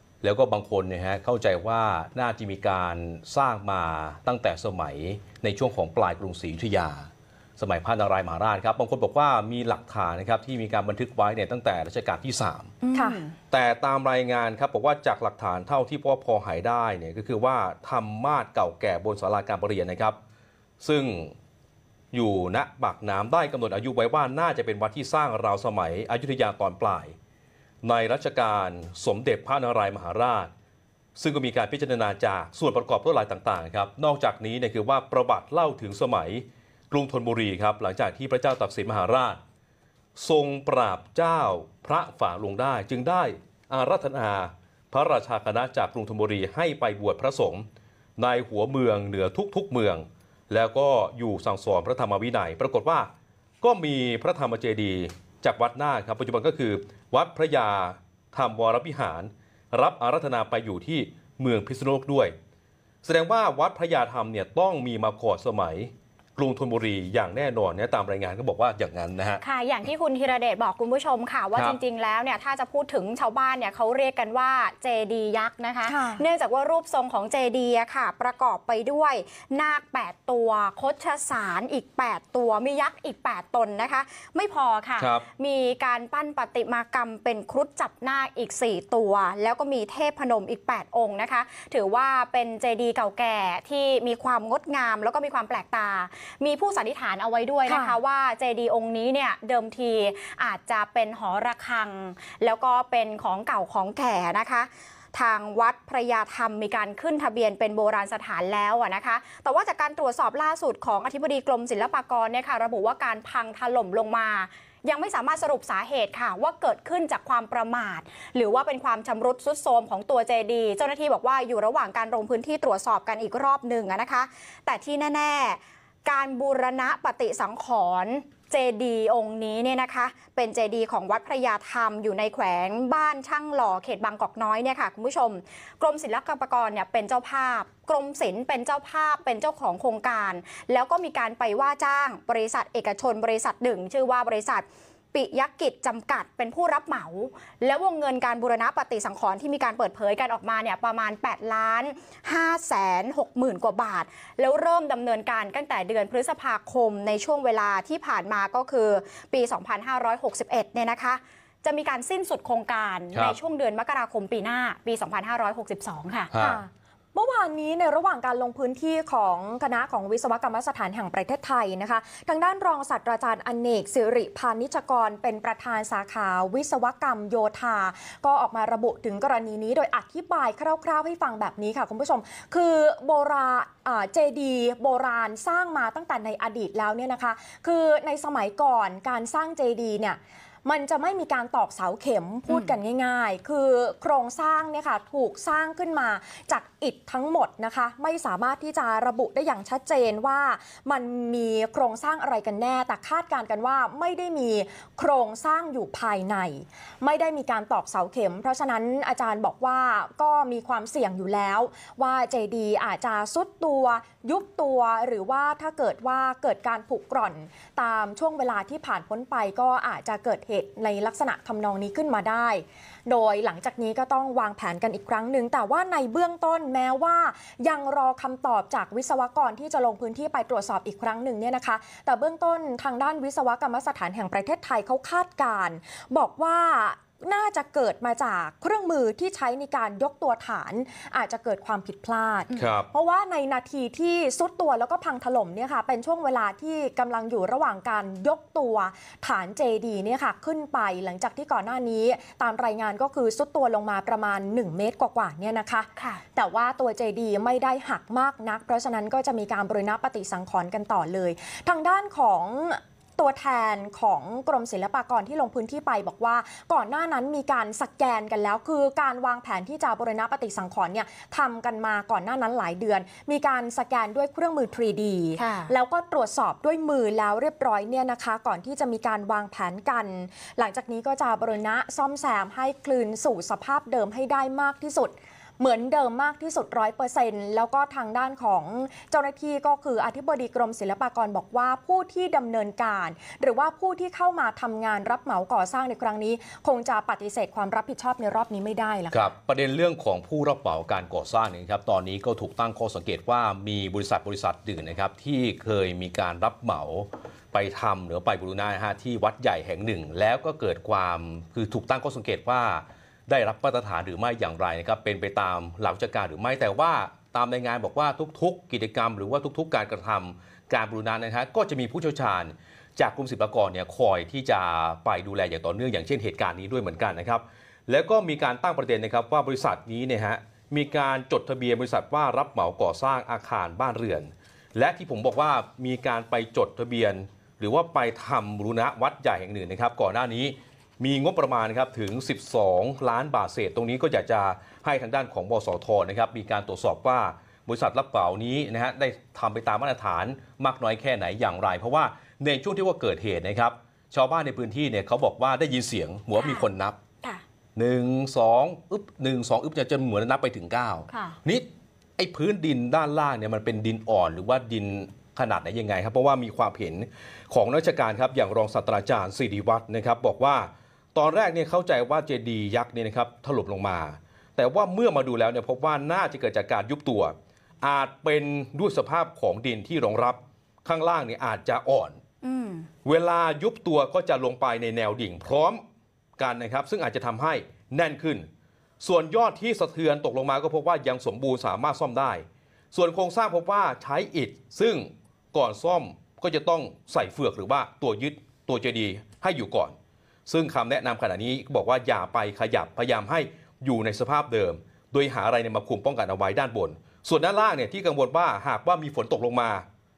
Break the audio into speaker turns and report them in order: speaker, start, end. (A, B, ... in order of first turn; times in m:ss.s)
0:00.2-0:12.7 A
0:12.8-0:13.4 B
0:12.9-0:13.2 C
0:13.5-0:20.2 A
0:20.8-0:21.3 A
0:22.1-0:27.1 A
0:27.8-0:30.5 A
0:31.2-0:39.4 A
0:40.2-0:47.6 A
0:48.2-0:53.1 A
0:53.6-1:02.3 A
1:03.0-1:09.4 A
1:09.4-2:46.3 B
1:11.5-1:11.8 A
1:15.8-1:16.2 C
1:25.0-1:25.2 A
1:37.6-1:38.0 C
2:46.3-2:46.6 A
2:46.4-4:59.3 C
4:02.5-4:02.9 A
4:16.0-4:16.2 B
4:35.4-4:35.7 B
4:59.1-5:57.0 A
5:56.4-5:56.7 B
5:57.8-6:22.2 A
6:01.1-6:01.4 B
6:22.4-6:22.9 B
6:23.0-6:25.8 A
6:26.4-6:28.5 A
6:29.0-6:39.9 A
6:40.4-6:49.8 A